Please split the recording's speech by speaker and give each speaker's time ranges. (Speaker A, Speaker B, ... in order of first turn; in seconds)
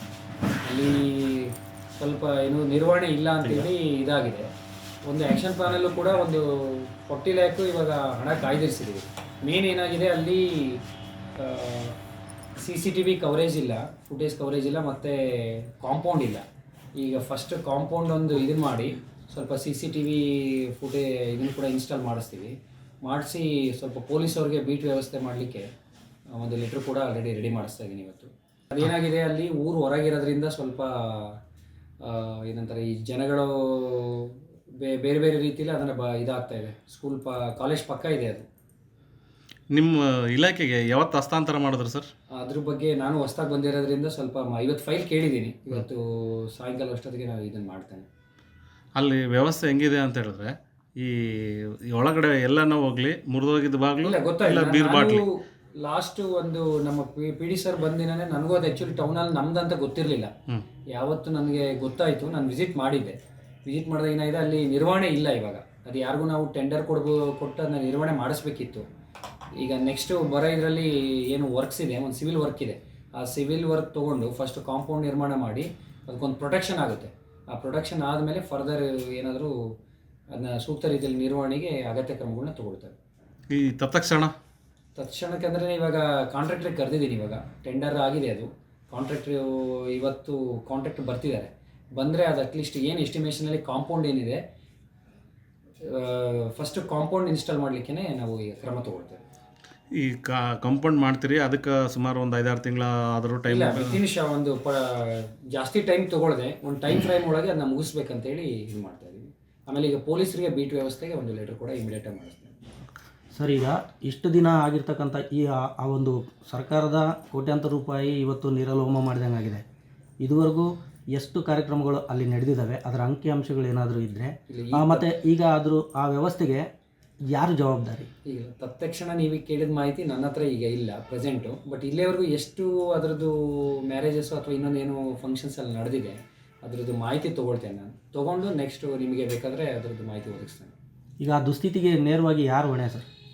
Speaker A: 0.6-4.5, 5.0-10.8, 11.4-12.0, 12.6-16.4, 17.0-25.7, 26.4-31.4, 32.0-38.5, 42.3-48.1, 54.0-55.2, 55.8-60.3, 60.9-68.8, 69.6-79.5, 80.3-83.0, 85.0-94.4, 95.8-99.2, 103.5-112.6, 124.5-125.1, 128.2-140.8
Speaker B: 39.7-42.1, 49.0-55.2, 83.5-84.3, 100.0-104.0
Speaker C: 113.3-119.6, 120.2-126.7, 127.3-128.1, 141.2-143.1